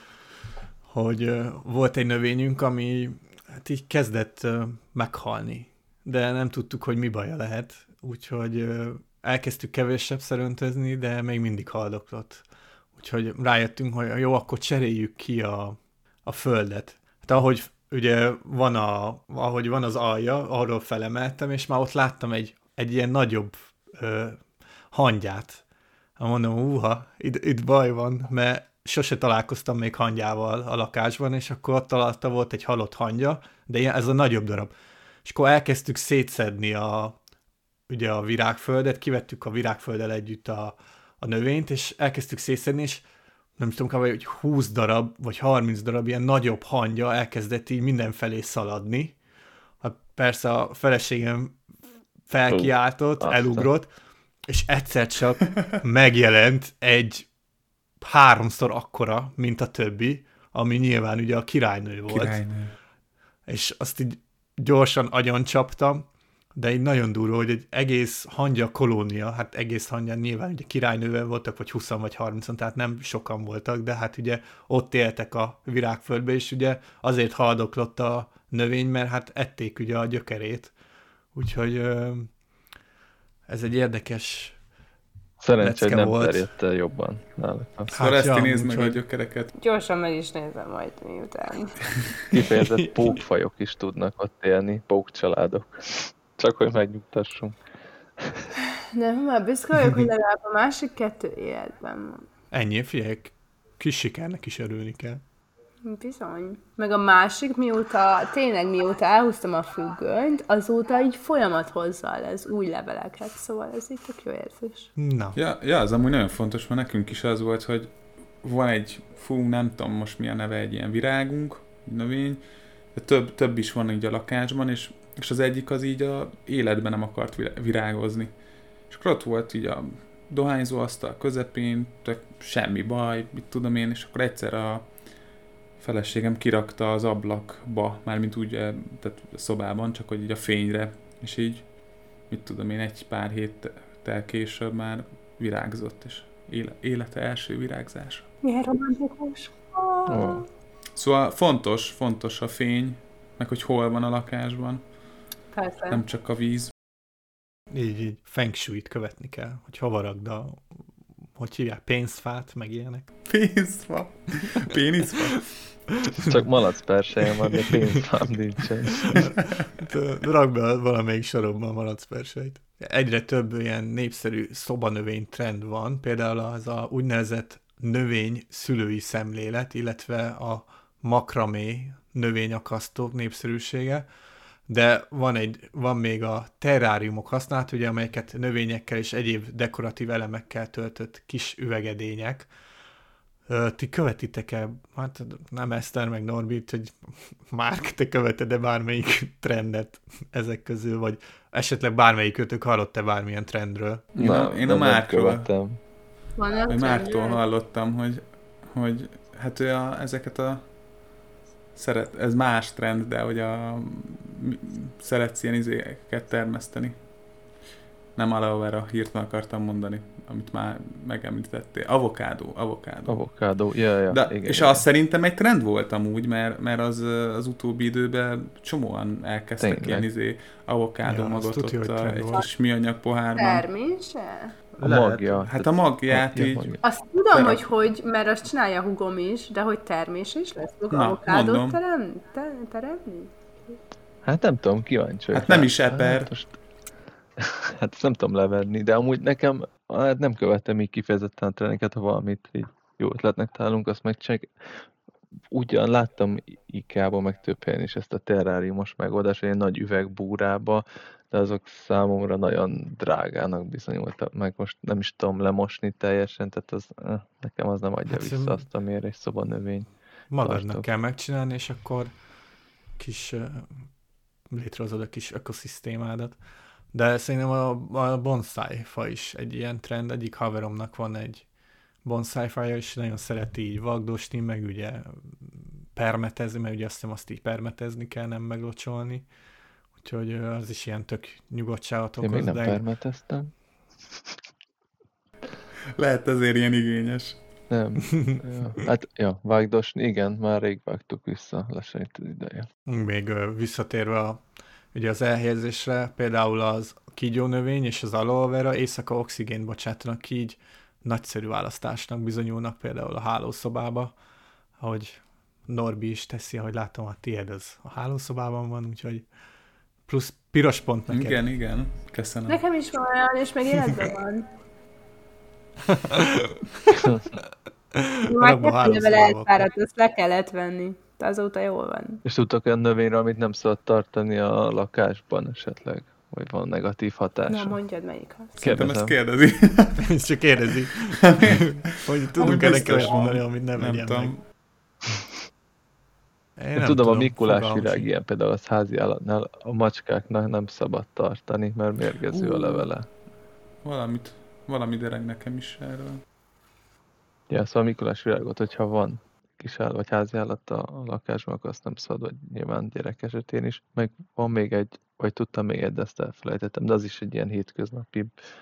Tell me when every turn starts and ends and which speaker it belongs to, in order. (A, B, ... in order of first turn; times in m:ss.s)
0:00.9-0:12.4 A
0:13.0-0:25.6 A
0:26.2-0:34.7 A
0:35.2-0:37.2 A
0:37.9-0:43.1 A
0:43.6-0:49.2 A
0:49.8-0:51.6 A
0:52.3-0:53.9 A
0:52.5-0:53.7 B
0:54.5-0:57.3 A
0:58.0-1:02.4 A
1:02.1-1:02.7 C
1:03.5-1:20.7 A
1:21.3-1:22.3 A
1:23.5-1:24.6 A
1:25.4-1:27.9 B
1:25.6-1:26.5 A
1:27.9-1:29.0 A
1:27.9-1:29.5 C
1:29.6-1:31.8 D
1:32.3-1:37.6 B
1:32.8-1:33.2 A
1:38.2-1:38.5 B
1:38.9-1:42.3 D
1:42.5-1:45.2 A
1:45.8-1:54.9 D
1:55.0-1:55.4 A
1:55.4-2:08.4 C
2:08.9-2:15.0 C
2:15.8-2:21.7 C
2:22.3-2:28.3 C
2:28.4-2:30.4 D
2:30.1-2:30.4 B
2:31.0-2:34.9 C
2:35.5-2:36.0 D
2:35.9-2:36.7 C
2:37.7-2:40.6 A
2:41.3-2:43.1 A
2:43.3-2:45.6 C
2:45.9-2:46.3 A
2:46.2-2:49.2 B
2:49.1-3:04.0 A
3:04.7-3:12.5 A
3:13.5-3:24.1 A
3:24.2-3:25.4 C
3:24.2-3:25.8 B
3:26.4-3:27.4 D
3:26.7-3:30.6 C
3:31.8-3:37.0 C
3:38.2-3:53.6 C
3:43.1-3:44.8 B
3:49.6-3:50.1 B
3:51.0-3:52.5 A
3:53.4-3:54.6 D
3:54.8-3:55.4 A
3:54.8-3:56.8 B
3:55.4-3:56.7 C
3:56.8-4:03.8 D
3:57.3-3:57.7 C
4:00.9-4:01.8 C
4:04.2-4:06.6 B
4:05.3-4:06.3 C
4:07.4-4:14.5 B
4:15.5-4:29.9 B
4:28.1-4:28.6 A
4:30.3-4:32.1 A
4:30.4-4:30.9 B
4:33.0-4:33.8 A
4:34.5-4:36.4 A
4:36.9-4:41.5 A
4:42.0-4:49.2 A
4:50.0-4:52.8 A
4:52.2-4:53.5 B
4:56.0-4:57.4 C
4:57.7-5:02.7 B
5:02.9-5:14.2 A
5:14.8-5:19.2 A
5:20.1-5:21.4 A
5:21.1-5:22.6 C
5:22.5-5:24.5 D
5:25.9-5:27.2 A
5:27.9-5:29.7 A
5:28.3-5:32.2 D
5:32.2-5:37.8 B
5:37.5-5:38.6 D
5:38.6-5:40.0 C
5:38.6-5:39.2 B
5:40.0-5:44.3 A
5:41.3-5:44.4 C
5:42.4-5:43.1 D
5:46.6-5:48.1 A
5:46.8-5:53.1 B
5:52.3-5:52.8 C
5:53.8-5:56.2 C
5:57.5-6:08.3 B